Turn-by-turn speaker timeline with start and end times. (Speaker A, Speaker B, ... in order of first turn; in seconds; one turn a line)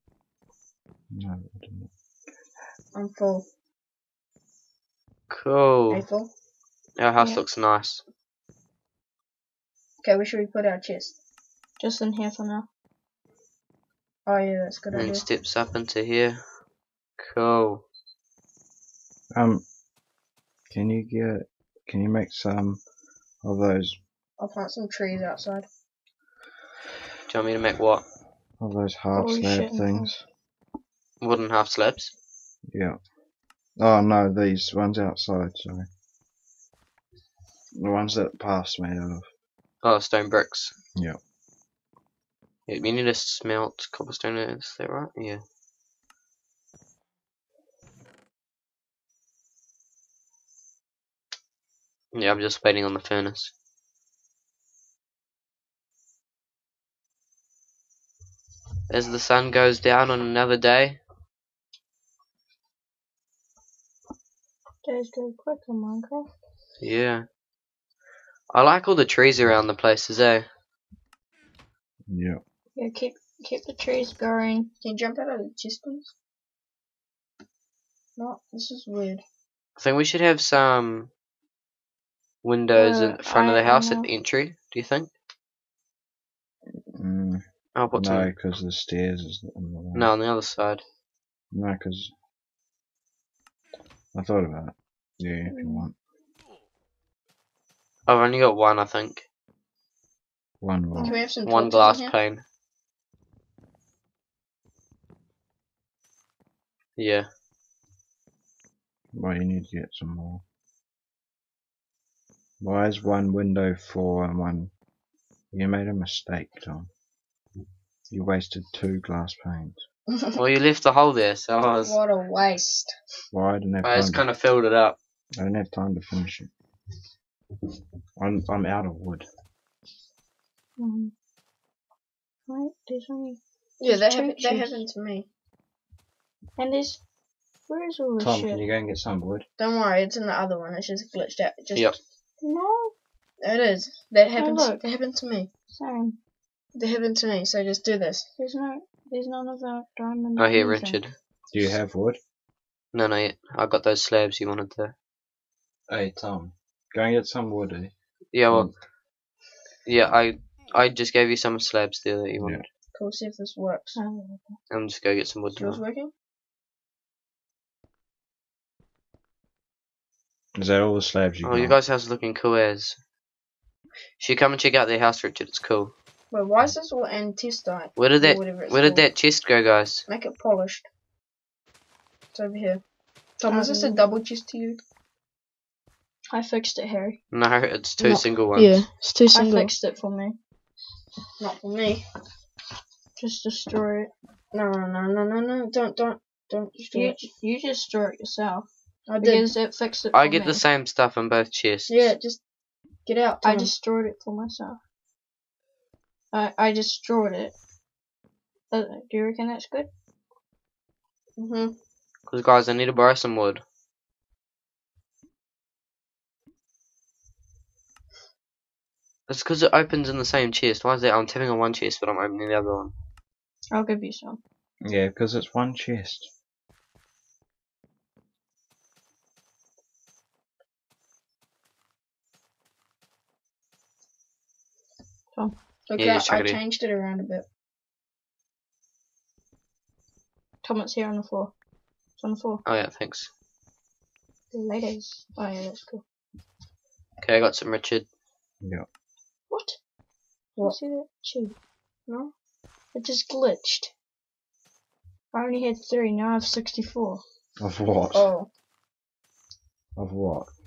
Speaker A: 1.1-1.9
Speaker B: 2.9-3.5
Speaker C: 5.3-6.1
Speaker B: 5.9-6.3
Speaker C: 7.0-8.0
Speaker B: 10.0-11.2
Speaker D: 11.8-12.7
Speaker B: 14.3-15.2
Speaker C: 14.9-16.4
Speaker C: 17.2-17.8
Speaker A: 19.3-19.6
Speaker A: 20.7-22.8
Speaker A: 23.4-24.0
Speaker B: 24.4-25.7
Speaker C: 27.3-28.0
Speaker A: 28.6-30.2
Speaker D: 29.1-30.1
Speaker C: 31.2-32.1
Speaker A: 32.7-33.0
Speaker A: 33.8-35.9
Speaker A: 37.7-39.3
Speaker C: 39.8-40.7
Speaker C: 42.7-45.4
Speaker C: 52.1-53.5
Speaker C: 58.9-61.0
Speaker D: 64.8-66.3
Speaker C: 66.8-67.2
Speaker C: 68.5-70.5
Speaker A: 72.1-72.4
Speaker D: 72.8-74.7
Speaker B: 74.8-76.1
Speaker B: 78.2-79.2
Speaker C: 79.8-81.1
Speaker C: 82.4-85.1
Speaker D: 82.8-84.1
Speaker A: 86.8-87.4
Speaker C: 87.8-88.3
Speaker A: 87.9-90.1
Speaker C: 89.9-90.8
Speaker A: 91.5-92.1
Speaker A: 94.1-95.9
Speaker D: 95.5-95.8
Speaker C: 98.1-99.2
Speaker A: 100.6-101.2
Speaker D: 101.0-101.2
Speaker B: 101.0-102.2
Speaker C: 101.5-102.4
Speaker C: 107.0-107.3
Speaker A: 109.1-110.4
Speaker A: 112.6-114.7
Speaker A: 115.5-116.9
Speaker A: 118.1-119.8
Speaker B: 120.1-120.4
Speaker C: 120.4-122.0
Speaker B: 121.8-123.0
Speaker A: 123.3-124.2
Speaker C: 123.8-125.0
Speaker A: 125.4-126.5
Speaker A: 128.2-129.2
Speaker D: 130.8-131.1
Speaker D: 132.5-134.8
Speaker B: 133.8-135.3
Speaker D: 136.6-137.0
Speaker D: 137.7-138.6
Speaker A: 138.2-139.5
Speaker B: 139.6-142.0
Speaker D: 142.4-142.9
Speaker B: 143.4-145.5
Speaker D: 144.4-144.8
Speaker D: 145.7-146.2
Speaker B: 146.8-148.3
Speaker D: 148.4-151.0
Speaker C: 150.4-151.2
Speaker A: 151.5-152.2
Speaker C: 152.9-154.9
Speaker A: 155.9-157.9
Speaker C: 158.3-158.7
Speaker C: 159.9-162.6
Speaker B: 162.9-164.0
Speaker D: 164.0-164.6
Speaker C: 164.7-165.8
Speaker B: 165.6-166.1
Speaker A: 170.6-171.8
Speaker C: 171.4-173.0
Speaker C: 174.2-175.9
Speaker B: 176.3-179.0
Speaker C: 178.0-180.1
Speaker B: 180.1-180.9
Speaker B: 182.3-182.8
Speaker B: 183.4-184.8
Speaker D: 183.5-184.0
Speaker D: 186.3-187.2
Speaker C: 187.3-188.8
Speaker B: 188.0-189.7
Speaker D: 189.3-190.4
Speaker B: 191.4-192.1
Speaker D: 193.2-194.1
Speaker B: 194.5-197.3
Speaker D: 196.9-198.7
Speaker B: 199.1-199.5
Speaker D: 199.2-200.6
Speaker C: 200.1-202.1
Speaker B: 201.9-202.4
Speaker B: 203.1-203.7
Speaker D: 203.4-204.8
Speaker D: 206.3-207.5
Speaker D: 208.7-209.9
Speaker B: 211.4-211.8
Speaker C: 212.3-213.6
Speaker C: 219.3-222.9
Speaker D: 223.7-224.4
Speaker A: 224.8-226.3
Speaker B: 235.9-237.4
Speaker C: 236.0-236.6
Speaker D: 240.6-241.5
Speaker D: 242.2-242.6
Speaker C: 242.7-243.3
Speaker D: 244.5-246.0
Speaker C: 247.2-248.1
Speaker D: 249.5-249.8
Speaker D: 250.6-251.6
Speaker B: 252.1-252.3
Speaker D: 252.9-253.9
Speaker D: 255.3-257.2
Speaker A: 257.6-258.3
Speaker B: 258.1-258.5
Speaker A: 260.0-260.5